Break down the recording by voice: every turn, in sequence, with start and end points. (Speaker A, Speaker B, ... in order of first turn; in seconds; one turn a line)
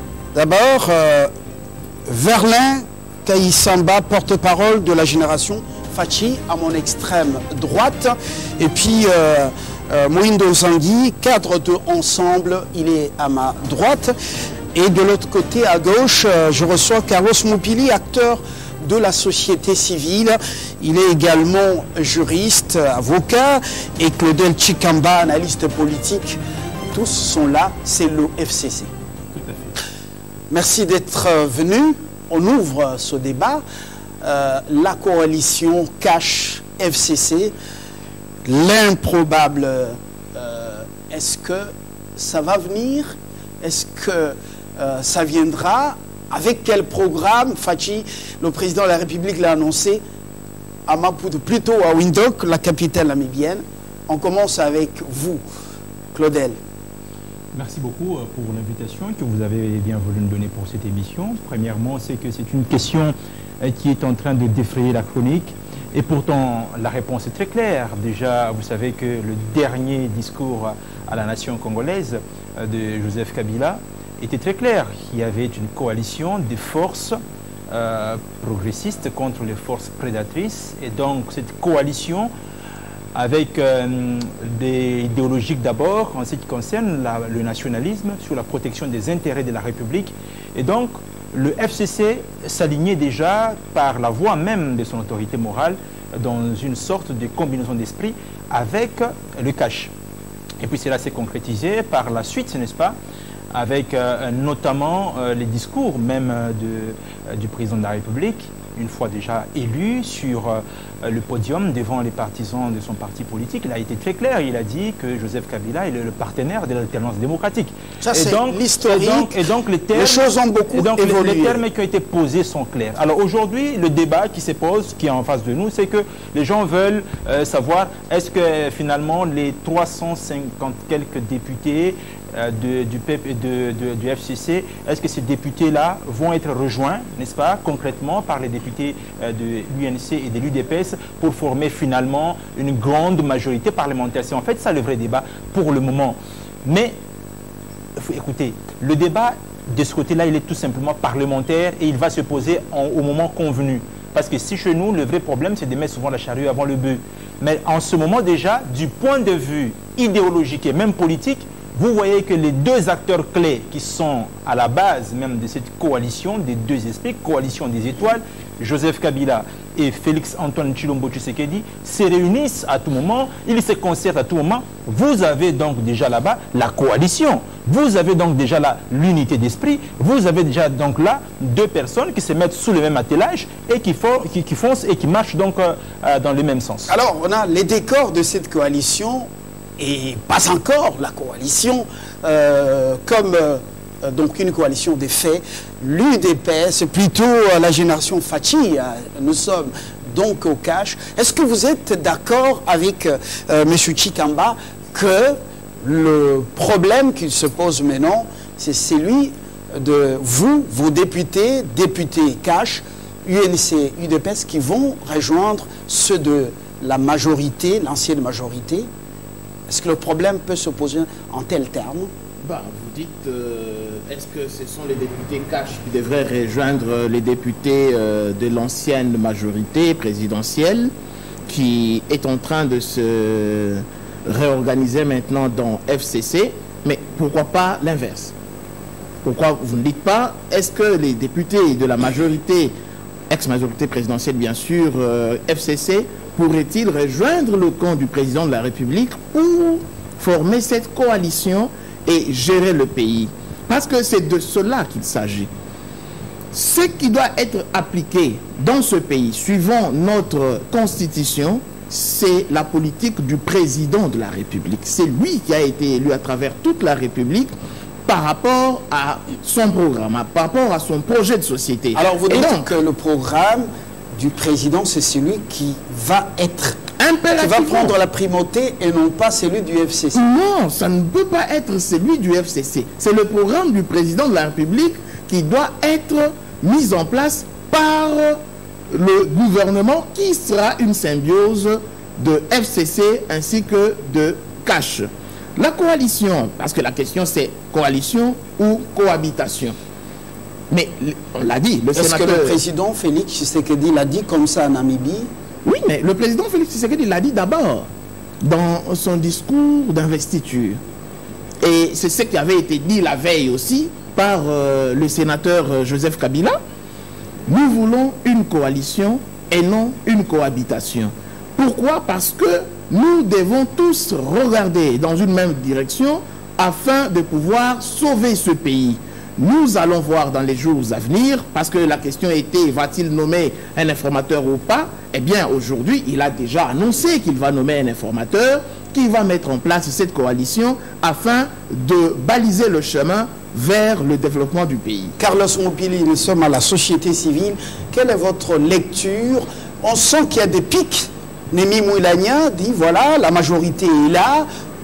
Speaker A: 0.3-1.3
Speaker A: 2.1-14.1
Speaker A: 14.7-26.4
Speaker A: 26.9-28.9
Speaker B: 29.4-29.6
Speaker A: 30.5-33.6
Speaker A: 34.2-37.5
Speaker A: 38.4-50.0
Speaker A: 50.9-55.4
Speaker A: 56.1-56.6
Speaker B: 57.5-77.2
Speaker B: 77.7-82.3
Speaker B: 83.1-99.9
Speaker B: 100.6-103.0
Speaker B: 103.5-146.9
Speaker A: 118.0-119.4
Speaker A: 119.9-121.6
Speaker B: 148.0-186.9
Speaker A: 186.9-189.3
Speaker A: 189.8-218.9
Speaker A: 219.7-222.1
Speaker C: 222.4-230.9
Speaker C: 231.5-238.3
Speaker C: 239.2-242.7
Speaker C: 243.3-255.5
Speaker C: 256.5-267.5
Speaker C: 268.1-272.7
Speaker A: 271.9-276.8
Speaker C: 277.0-278.0
Speaker A: 277.4-280.2
Speaker C: 280.1-288.4
Speaker C: 288.9-299.8
Speaker C: 300.7-302.6
Speaker A: 301.9-305.3
Speaker C: 305.6-307.9
Speaker C: 308.4-310.8
Speaker C: 311.6-316.6
Speaker C: 317.5-345.1
Speaker A: 345.2-354.5